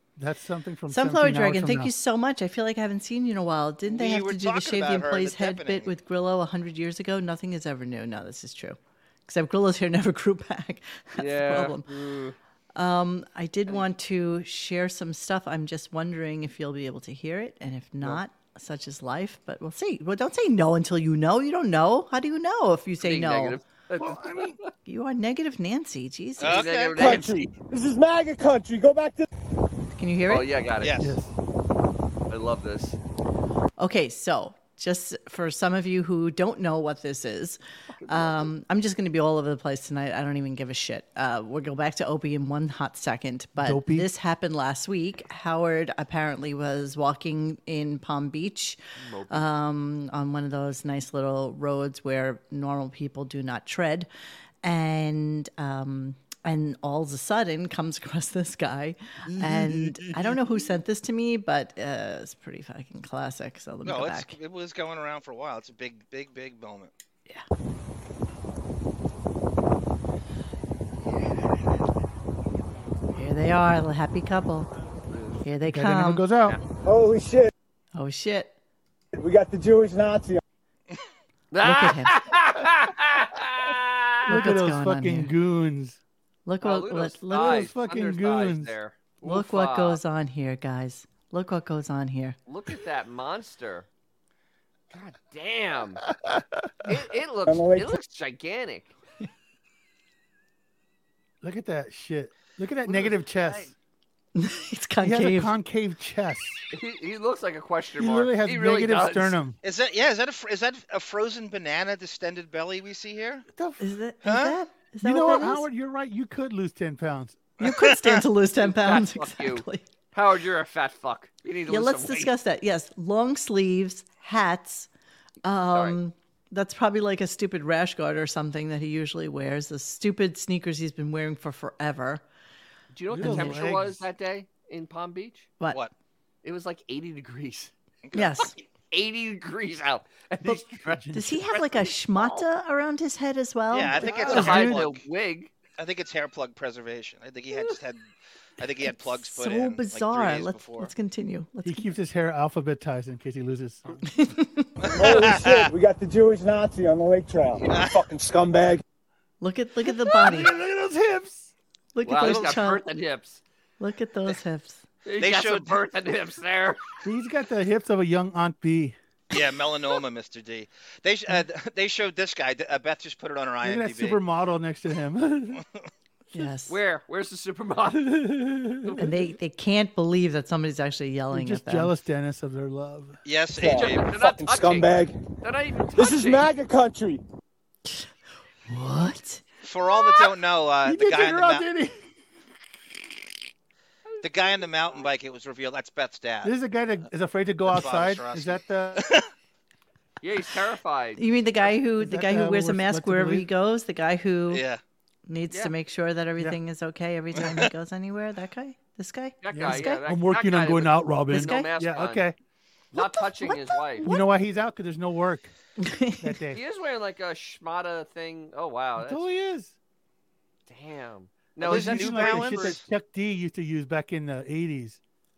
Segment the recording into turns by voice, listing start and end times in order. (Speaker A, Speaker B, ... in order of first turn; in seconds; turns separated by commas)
Speaker A: 0.2-1.9, Speaker B: 0.9-11.9, Speaker C: 3.9-5.9, Speaker D: 11.2-12.4, Speaker B: 12.8-23.6, Speaker D: 23.0-24.7, Speaker A: 24.0-24.6, Speaker B: 24.9-26.6, Speaker C: 26.4-27.3, Speaker D: 26.4-27.4, Speaker E: 26.9-29.3, Speaker B: 29.9-30.5, Speaker D: 30.3-31.0, Speaker C: 30.8-31.2, Speaker A: 31.0-31.3, Speaker D: 32.3-33.0, Speaker B: 33.8-48.8, Speaker D: 38.0-38.5, Speaker A: 43.6-44.1, Speaker D: 49.0-49.5, Speaker B: 49.3-54.1, Speaker B: 54.6-64.3, Speaker A: 59.6-60.0, Speaker C: 63.9-66.9, Speaker B: 73.1-74.7, Speaker D: 75.1-75.5, Speaker B: 75.4-76.2, Speaker A: 75.7-76.6, Speaker E: 76.8-77.5, Speaker B: 78.0-78.5, Speaker E: 79.2-80.4, Speaker D: 81.5-84.4, Speaker B: 81.6-82.2, Speaker A: 84.3-86.0, Speaker B: 84.3-85.3, Speaker B: 86.5-87.6, Speaker D: 86.6-90.0, Speaker A: 87.4-88.8, Speaker B: 89.2-92.4, Speaker D: 92.5-93.9, Speaker D: 94.9-96.1, Speaker D: 96.8-98.9, Speaker E: 97.5-98.0, Speaker A: 101.4-103.7, Speaker D: 102.9-103.7, Speaker B: 104.4-105.5, Speaker A: 105.0-106.6, Speaker D: 106.7-109.4, Speaker A: 108.0-109.6, Speaker C: 109.6-113.5, Speaker A: 113.5-113.8, Speaker B: 113.8-115.7, Speaker C: 114.2-114.6, Speaker A: 115.0-117.5, Speaker C: 117.6-118.2, Speaker B: 117.6-119.9, Speaker D: 118.6-122.3, Speaker B: 121.7-124.9, Speaker B: 125.5-132.2, Speaker D: 132.9-135.5, Speaker A: 133.1-134.0, Speaker B: 133.2-133.6, Speaker D: 136.4-137.7, Speaker C: 138.1-138.6, Speaker B: 138.1-138.5, Speaker D: 138.9-141.7, Speaker A: 140.4-141.4, Speaker B: 141.1-144.5, Speaker C: 143.7-145.0, Speaker A: 144.0-144.9, Speaker D: 144.1-145.5, Speaker C: 145.8-148.1, Speaker C: 148.6-150.9, Speaker B: 148.9-151.9, Speaker A: 151.6-154.1, Speaker B: 154.1-154.8, Speaker C: 154.8-155.7, Speaker E: 154.9-158.8, Speaker C: 157.6-158.0, Speaker B: 159.4-160.6, Speaker A: 160.0-161.5, Speaker B: 161.9-162.8, Speaker D: 162.0-163.4, Speaker C: 162.2-162.6, Speaker B: 163.8-164.8, Speaker D: 165.1-167.0, Speaker C: 165.2-165.8, Speaker A: 167.0-168.9, Speaker C: 169.3-174.2, Speaker A: 173.6-175.6, Speaker B: 176.3-176.8, Speaker D: 176.7-179.1, Speaker A: 178.2-179.2, Speaker B: 179.0-181.9, Speaker A: 181.3-183.2, Speaker C: 183.3-184.1, Speaker E: 183.5-185.2, Speaker D: 183.6-186.5, Speaker E: 186.0-187.2, Speaker B: 188.7-189.4, Speaker C: 189.6-191.7, Speaker A: 190.8-192.0, Speaker D: 194.1-195.1, Speaker C: 194.2-196.6, Speaker A: 196.4-199.1, Speaker C: 197.7-199.3, Speaker D: 200.2-201.2, Speaker B: 201.2-204.6, Speaker A: 202.0-203.5, Speaker C: 204.5-204.8, Speaker B: 205.3-210.0, Speaker C: 207.3-207.7, Speaker D: 209.4-212.2, Speaker A: 209.5-212.3, Speaker B: 211.3-211.7, Speaker D: 212.9-214.1, Speaker B: 213.0-214.3, Speaker A: 214.0-215.5, Speaker B: 215.8-216.4, Speaker A: 216.2-216.6, Speaker D: 216.5-219.2, Speaker A: 219.0-219.7, Speaker D: 220.7-222.8, Speaker C: 221.6-222.8, Speaker A: 221.6-225.0